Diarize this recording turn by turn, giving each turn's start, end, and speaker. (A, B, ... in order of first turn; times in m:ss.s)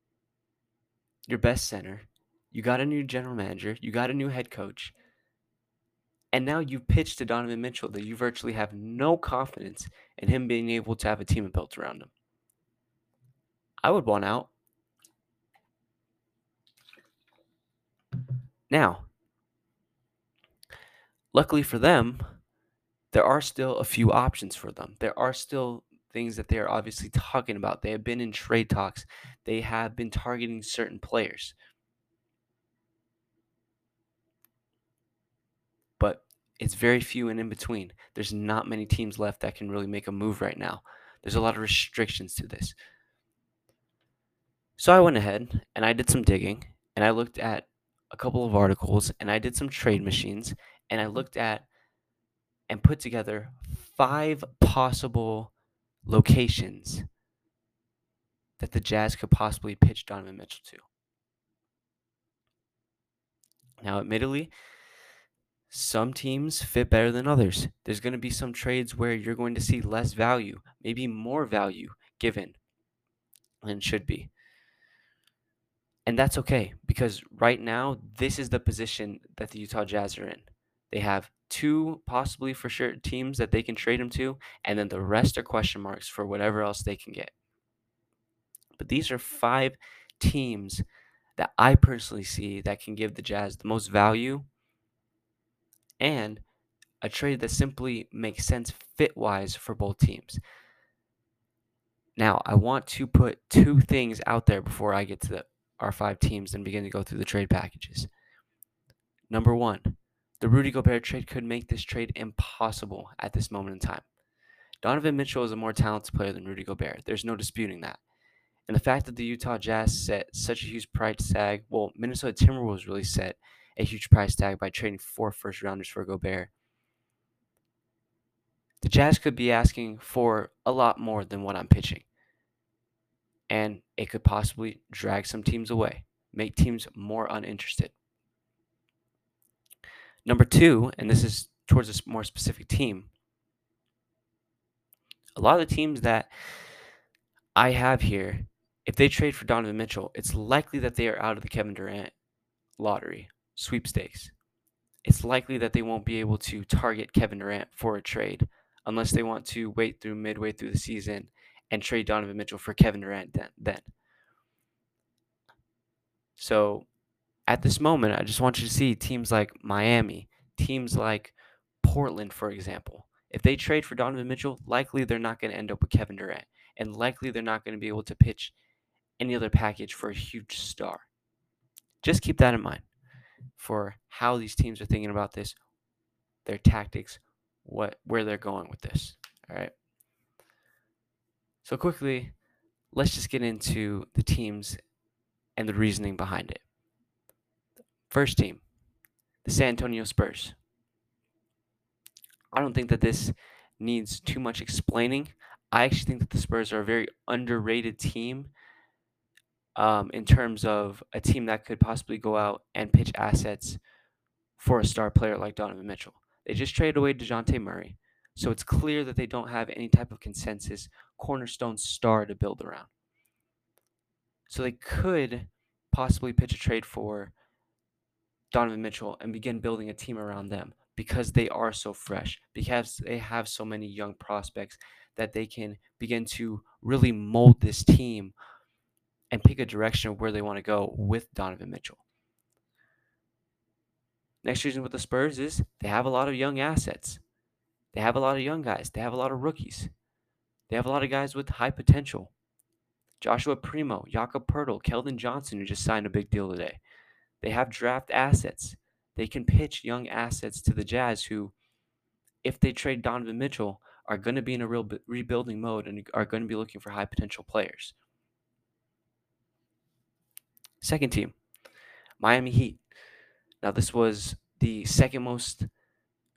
0:01.3-0:04.9 A
0:06.3-0:12.1 A
0:13.8-0:14.5 A
0:18.7-0:19.1 A
0:21.3-0:22.4 A
0:23.1-0:31.5 A
0:36.0-0:42.7 A
0:44.8-0:51.7 A
0:52.7-0:55.5 A
0:56.1-0:57.1 A
0:58.6-1:00.9 A
1:03.8-1:04.5 A
1:05.7-1:12.6 A
1:13.6-1:14.3 A
1:16.1-1:27.3 A
1:28.8-1:30.8 A
1:31.4-1:34.4 A
1:36.0-1:36.4 A
1:37.0-1:40.4 A
1:42.2-1:48.1 A
1:49.3-1:54.0 A
1:54.8-1:58.0 A
1:58.7-2:06.5 A
2:08.8-2:12.0 A
2:13.5-2:17.9 A
2:20.2-2:23.1 A
2:25.4-2:26.3 A
2:27.6-2:32.1 A
2:32.8-2:34.3 A
2:35.0-2:43.9 A
2:46.4-2:46.9 A
2:47.5-2:58.5 A
2:59.2-3:01.1 A
3:02.0-3:02.9 A
3:03.6-3:05.6 A
3:06.4-3:09.7 A
3:11.6-3:12.3 A
3:12.9-3:14.8 A
3:15.6-3:16.6 A
3:18.1-3:18.6 A
3:19.4-3:20.6 A
3:22.5-3:28.5 A
3:29.8-3:33.8 A
3:34.6-3:42.9 A
3:44.5-3:47.3 A
3:48.5-3:58.3 A
3:59.3-4:02.0 A
4:04.4-4:07.2 A
4:07.9-4:09.9 A
4:10.7-4:12.3 A
4:13.2-4:16.8 A
4:17.4-4:21.5 A
4:22.4-4:27.9 A
4:30.8-4:31.3 A
4:32.2-4:32.8 A
4:33.6-4:35.7 A